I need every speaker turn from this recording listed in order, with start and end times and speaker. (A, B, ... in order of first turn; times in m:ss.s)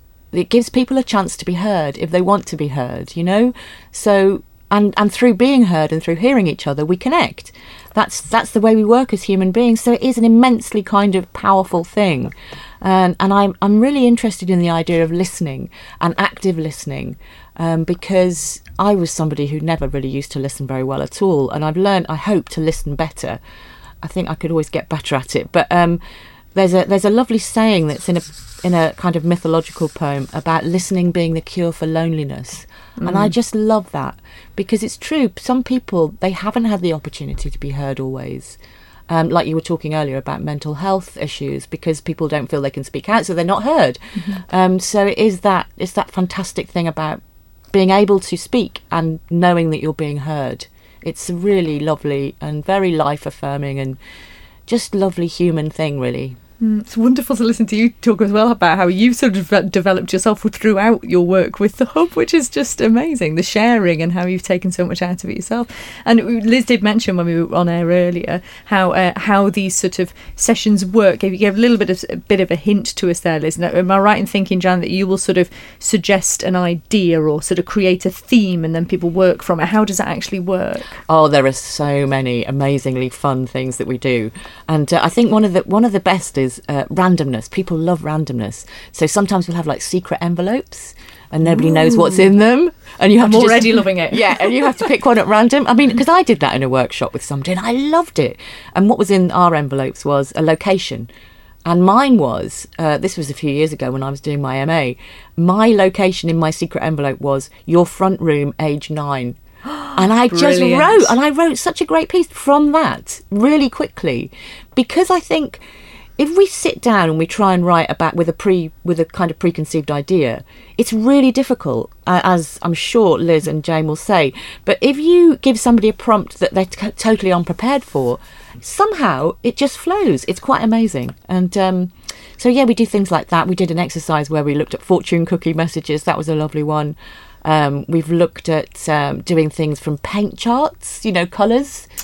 0:00.3-0:23.4 A
0:24.0-0:26.0 A
0:26.6-0:38.6 A
0:33.0-0:33.3 B
0:39.1-0:47.2 A
0:44.2-0:44.4 B
0:47.7-0:54.0 A
0:54.7-0:56.4 A
0:56.6-1:21.0 B
1:21.1-1:41.1 A
1:31.4-1:32.3 B
1:33.2-1:34.9 B
1:41.6-1:49.4 A
1:49.9-1:55.6 A
1:50.2-1:51.1 B
1:56.2-2:21.9 A